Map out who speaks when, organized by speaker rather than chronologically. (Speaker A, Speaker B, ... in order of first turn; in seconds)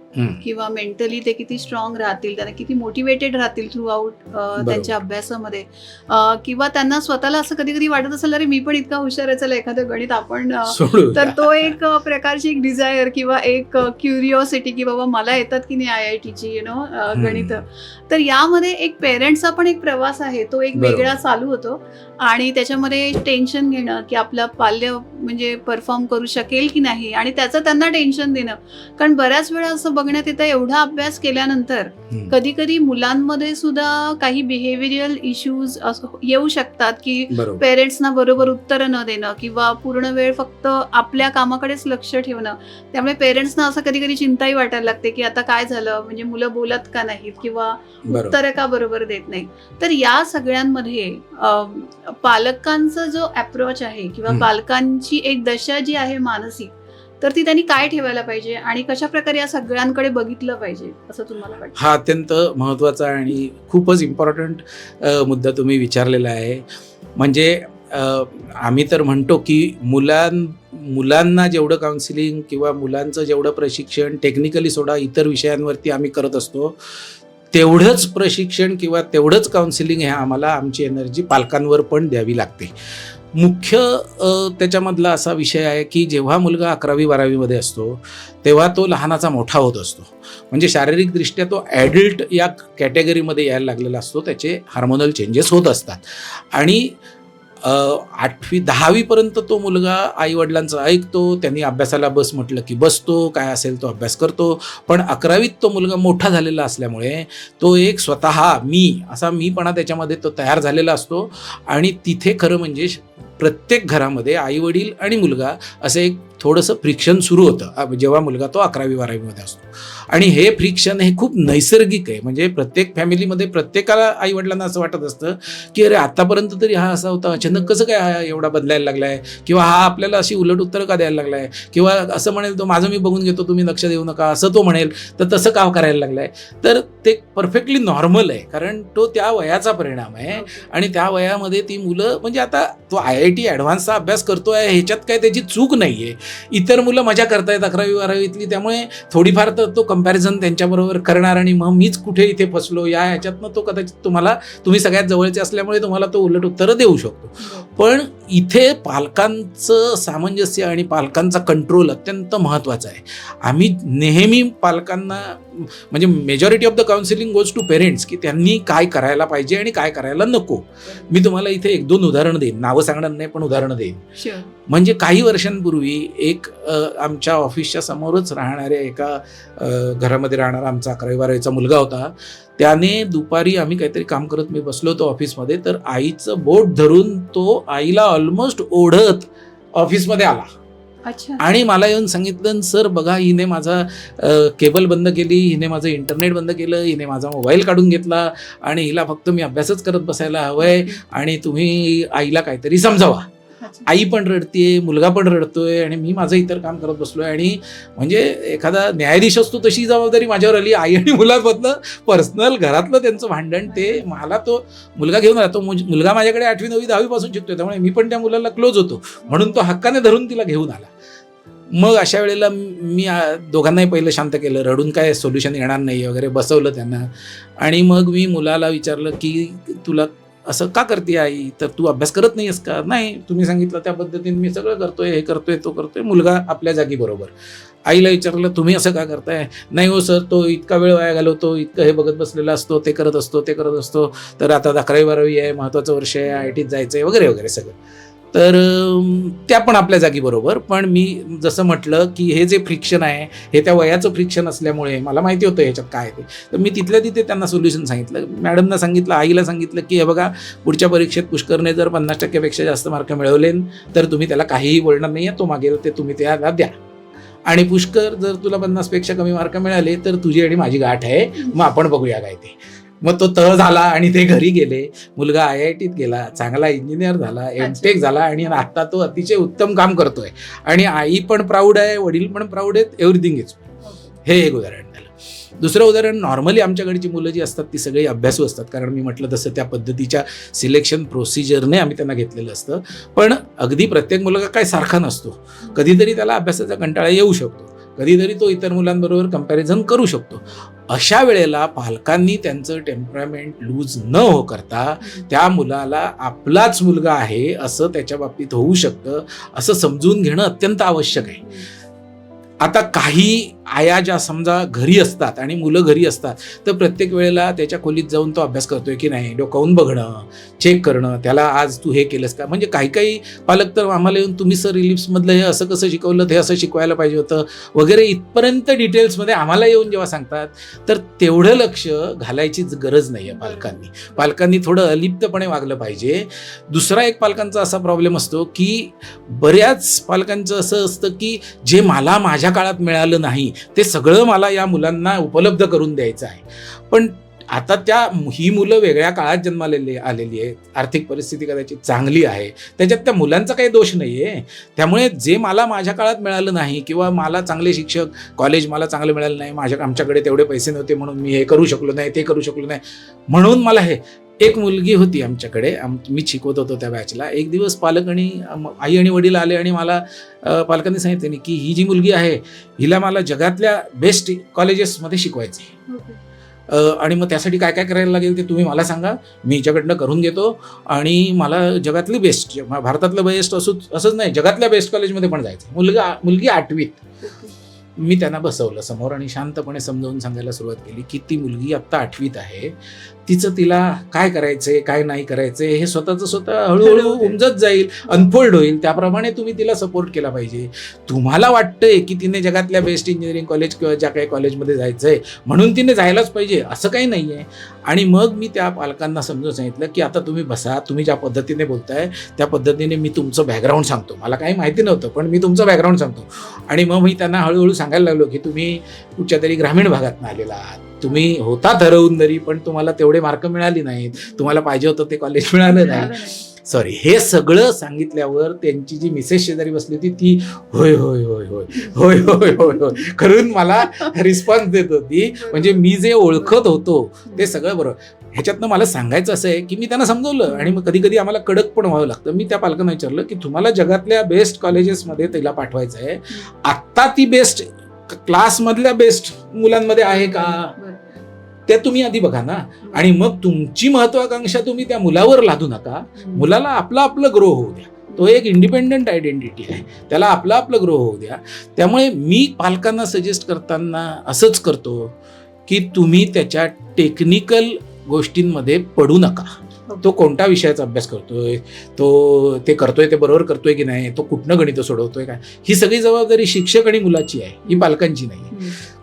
Speaker A: 0.1-0.4, 4.6-5.0, 10.7-11.7, 17.1-17.6, 20.8-21.1, 37.3-37.6, 48.0-48.4, 61.8-66.7, 67.2-76.8, 77.5-82.7, 83.3-97.0, 97.6-174.0, 174.7-190.5, 191.4-203.3, 203.9-220.9, 221.8-237.3, 237.9-247.8, 248.3-266.7, 267.5-283.6, 284.2-311.4, 312.6-375.8, 376.7-387.0, 388.0-450.7, 451.7-465.1, 465.7-469.5, 470.0-478.6
Speaker B: 0.4-61.8, 127.4-127.7, 140.3-140.7, 157.4-157.7, 170.9-171.1, 174.2-174.5, 191.1-191.4, 200.6-201.0, 203.6-203.9, 213.7-214.0, 219.2-219.6, 246.3-246.6, 277.6-278.0, 283.8-284.2, 305.0-305.3, 311.1-311.7, 333.3-334.3, 375.9-376.2, 387.2-387.6, 396.8-397.4, 398.1-398.3, 424.2-424.5, 425.7-426.5, 435.4-436.6, 440.5-440.8, 450.1-451.2, 452.8-453.1, 456.2-456.5, 458.1-458.4, 477.7-477.9, 478.5-478.8